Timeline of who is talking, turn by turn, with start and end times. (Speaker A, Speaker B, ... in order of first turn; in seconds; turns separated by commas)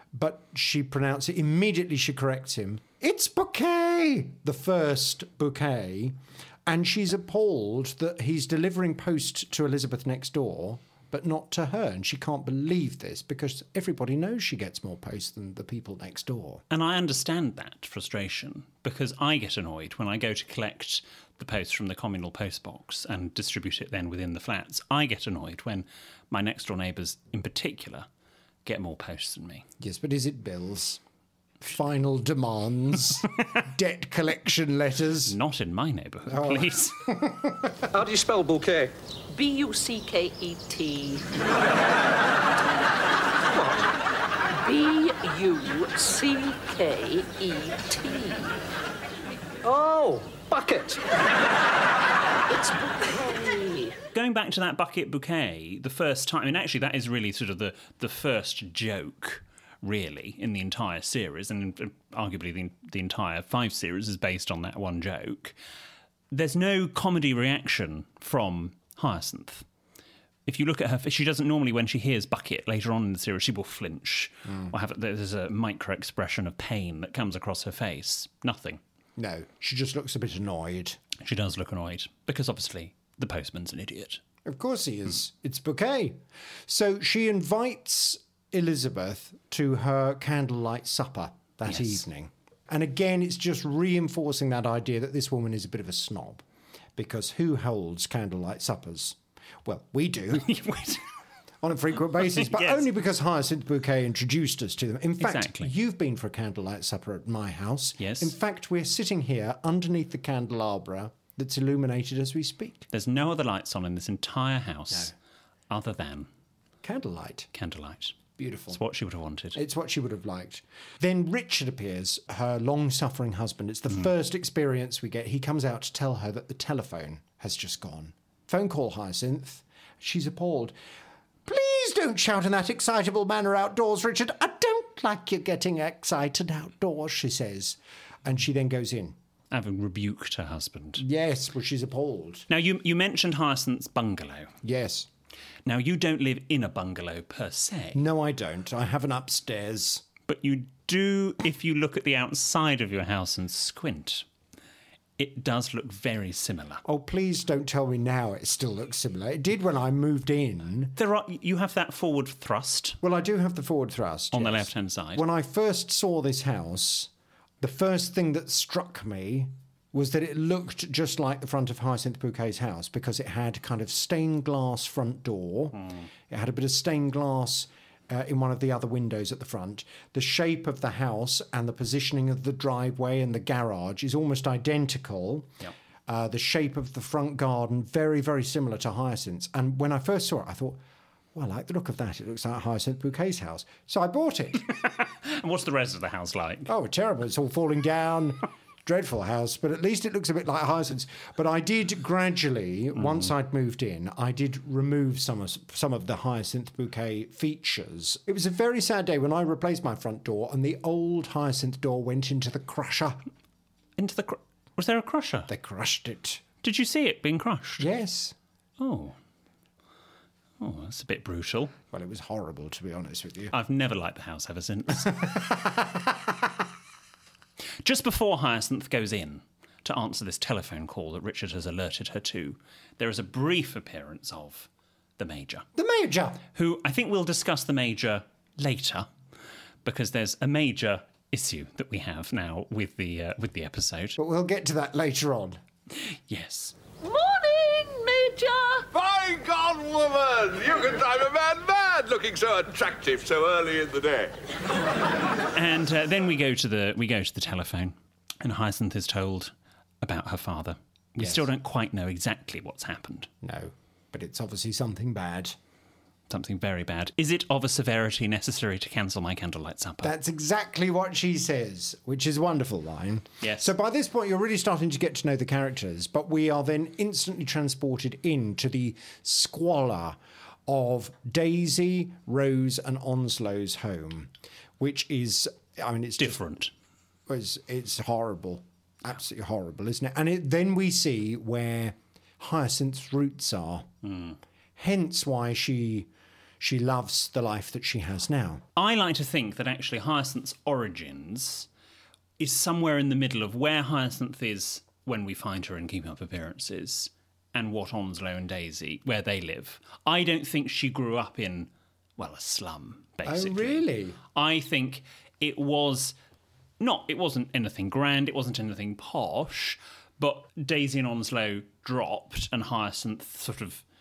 Speaker A: 0.1-16.6, Speaker B: 16.7-28.1, Speaker B: 28.6-29.6, Speaker A: 29.8-31.0, Speaker A: 31.6-35.4, Speaker B: 35.3-37.0, Speaker A: 36.3-37.9, Speaker C: 37.9-38.9, Speaker D: 39.3-41.2, Speaker D: 44.6-48.5, Speaker C: 49.6-51.0, Speaker D: 52.5-54.0, Speaker B: 54.1-65.5, Speaker B: 66.3-69.7, Speaker B: 70.5-78.8, Speaker A: 79.2-81.0, Speaker B: 81.2-84.2, Speaker A: 84.5-96.4, Speaker B: 91.7-92.0, Speaker A: 97.0-100.5, Speaker B: 100.4-101.0, Speaker A: 101.6-112.9, Speaker B: 102.2-102.8, Speaker B: 105.2-105.7, Speaker B: 108.0-108.3, Speaker B: 112.9-115.1, Speaker B: 115.7-116.3, Speaker A: 116.8-117.5, Speaker B: 117.5-118.2, Speaker A: 118.4-118.8, Speaker B: 118.7-119.6, Speaker A: 119.5-130.8, Speaker A: 131.5-139.2, Speaker B: 139.5-141.1, Speaker A: 141.0-142.5, Speaker B: 142.5-144.5, Speaker A: 144.6-145.1, Speaker B: 145.7-148.0, Speaker A: 147.9-150.0, Speaker B: 150.3-154.3, Speaker B: 155.2-156.8, Speaker A: 156.8-161.0, Speaker B: 161.0-163.0, Speaker A: 163.0-167.1, Speaker B: 164.3-165.2, Speaker A: 167.6-185.5, Speaker A: 186.1-190.8, Speaker A: 191.3-194.7, Speaker B: 194.7-196.7, Speaker A: 196.7-213.2, Speaker B: 214.0-215.5, Speaker A: 215.5-216.4, Speaker B: 216.6-217.9, Speaker A: 217.8-218.4, Speaker B: 218.8-219.2, Speaker B: 220.6-221.7, Speaker A: 221.9-223.5, Speaker B: 223.5-225.3, Speaker A: 225.0-226.3, Speaker B: 227.8-235.7, Speaker A: 235.8-236.4, Speaker B: 236.6-239.1, Speaker B: 239.8-244.2, Speaker A: 244.2-245.6, Speaker B: 245.9-246.8, Speaker D: 247.0-248.9, Speaker E: 248.9-254.3, Speaker B: 255.5-263.3, Speaker A: 261.2-261.5, Speaker A: 263.4-265.6, Speaker B: 266.3-270.1, Speaker A: 270.0-286.4, Speaker B: 273.4-273.7, Speaker B: 286.2-286.7, Speaker A: 287.3-293.9, Speaker B: 294.0-294.4, Speaker A: 294.8-296.1, Speaker A: 296.6-298.6, Speaker B: 298.8-301.7, Speaker B: 302.4-316.2, Speaker A: 313.2-314.2, Speaker B: 316.8-323.8